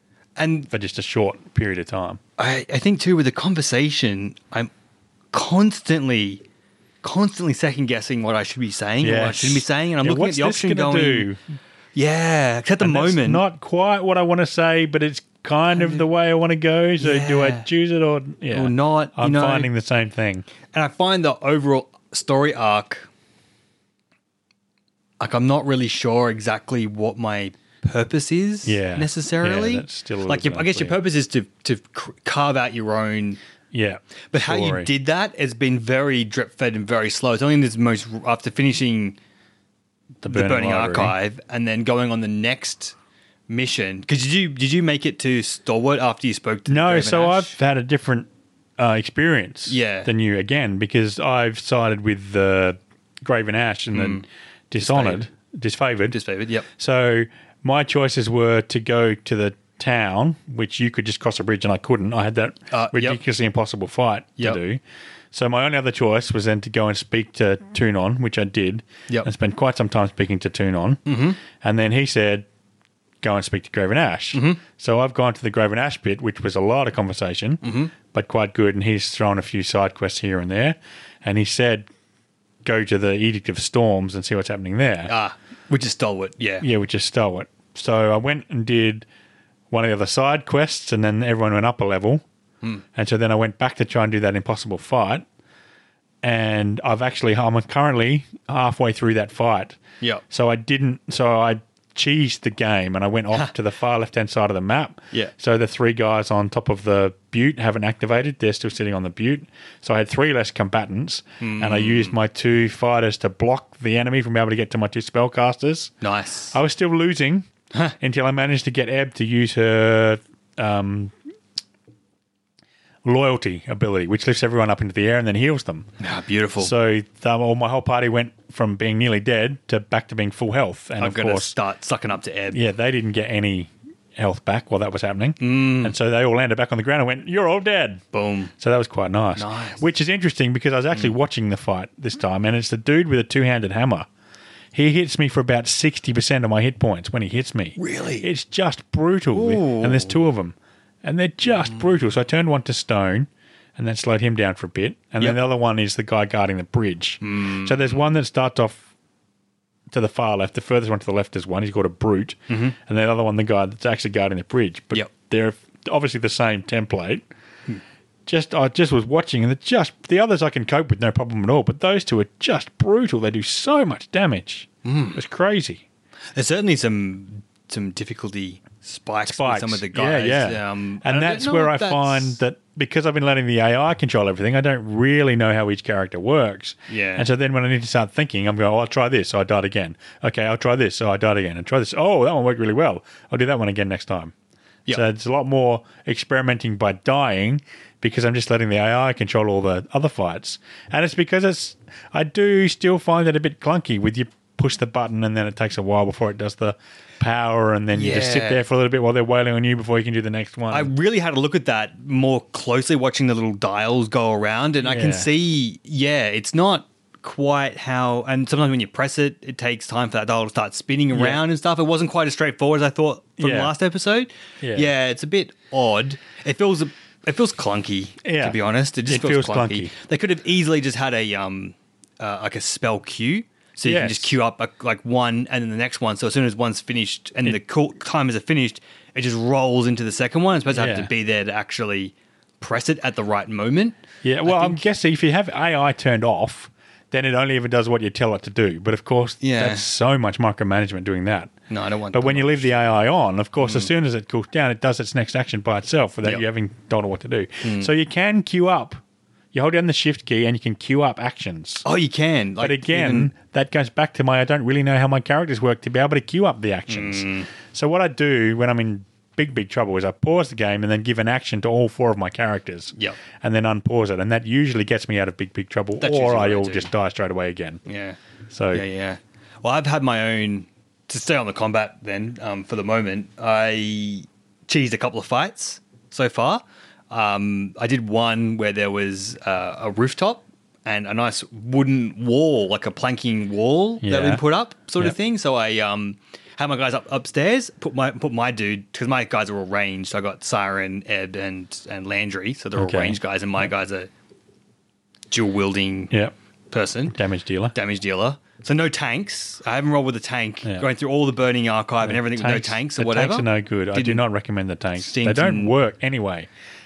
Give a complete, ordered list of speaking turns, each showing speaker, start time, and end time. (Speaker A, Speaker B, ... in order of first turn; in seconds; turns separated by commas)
Speaker A: 0.4-0.7, Speaker B: 0.7-2.2, Speaker A: 2.4-4.7, Speaker A: 5.3-6.4, Speaker A: 7.0-11.3, Speaker B: 9.0-11.4, Speaker A: 11.9-13.4, Speaker B: 12.8-20.5, Speaker A: 15.7-16.0, Speaker A: 17.0-17.7, Speaker A: 18.5-19.7, Speaker A: 20.7-23.1, Speaker A: 25.2-33.4, Speaker B: 28.6-31.0, Speaker B: 33.7-34.9, Speaker A: 34.3-39.2, Speaker B: 40.2-41.1, Speaker A: 40.3-43.0, Speaker A: 43.5-47.6, Speaker B: 46.7-56.2, Speaker A: 49.7-50.1, Speaker A: 53.9-54.2, Speaker A: 54.8-55.2, Speaker A: 56.1-56.7, Speaker B: 56.8-64.8, Speaker A: 62.7-63.2, Speaker B: 65.3-72.5, Speaker A: 71.1-71.4, Speaker B: 73.2-81.9, Speaker A: 74.3-74.6, Speaker A: 77.6-77.9, Speaker B: 82.6-85.1, Speaker A: 85.1-86.7, Speaker B: 86.6-89.1, Speaker B: 89.7-92.2, Speaker B: 93.0-95.2, Speaker B: 96.2-115.9, Speaker A: 111.4-112.2, Speaker A: 116.0-116.6, Speaker B: 116.5-117.5, Speaker B: 118.0-121.2, Speaker B: 123.0-125.9, Speaker A: 126.0-126.7, Speaker B: 126.6-131.5, Speaker A: 131.0-132.6, Speaker B: 132.5-138.0, Speaker A: 135.4-135.9, Speaker A: 138.1-138.5, Speaker B: 138.6-144.1, Speaker A: 139.4-139.8, Speaker B: 144.7-158.8, Speaker A: 147.8-148.3, Speaker A: 149.3-150.2, Speaker A: 157.2-158.1, Speaker B: 159.9-167.3, Speaker A: 162.5-162.8, Speaker B: 168.3-175.8, Speaker A: 174.8-175.2, Speaker A: 176.3-182.4, Speaker B: 179.3-194.3, Speaker A: 186.9-187.3, Speaker B: 194.9-210.9, Speaker A: 207.9-208.6, Speaker A: 210.7-244.8, Speaker B: 214.8-215.3, Speaker B: 221.1-221.4, Speaker B: 223.4-223.7, Speaker B: 224.6-224.9, Speaker B: 228.2-229.9, Speaker B: 233.8-234.4, Speaker B: 240.7-241.1, Speaker B: 244.2-251.5, Speaker A: 249.4-249.9, Speaker A: 251.7-252.7, Speaker B: 252.1-259.0, Speaker A: 253.6-253.9, Speaker A: 257.6-257.9, Speaker B: 259.5-261.8, Speaker A: 261.8-263.3, Speaker B: 262.6-277.8, Speaker A: 266.9-267.5, Speaker A: 276.0-276.9, Speaker A: 277.9-278.2, Speaker B: 278.5-278.8, Speaker A: 278.7-304.1, Speaker B: 294.0-294.4, Speaker B: 302.8-303.7, Speaker A: 305.3-306.1, Speaker A: 306.7-307.2, Speaker B: 307.1-307.7, Speaker A: 307.7-314.2, Speaker B: 312.0-316.5, Speaker A: 315.0-315.7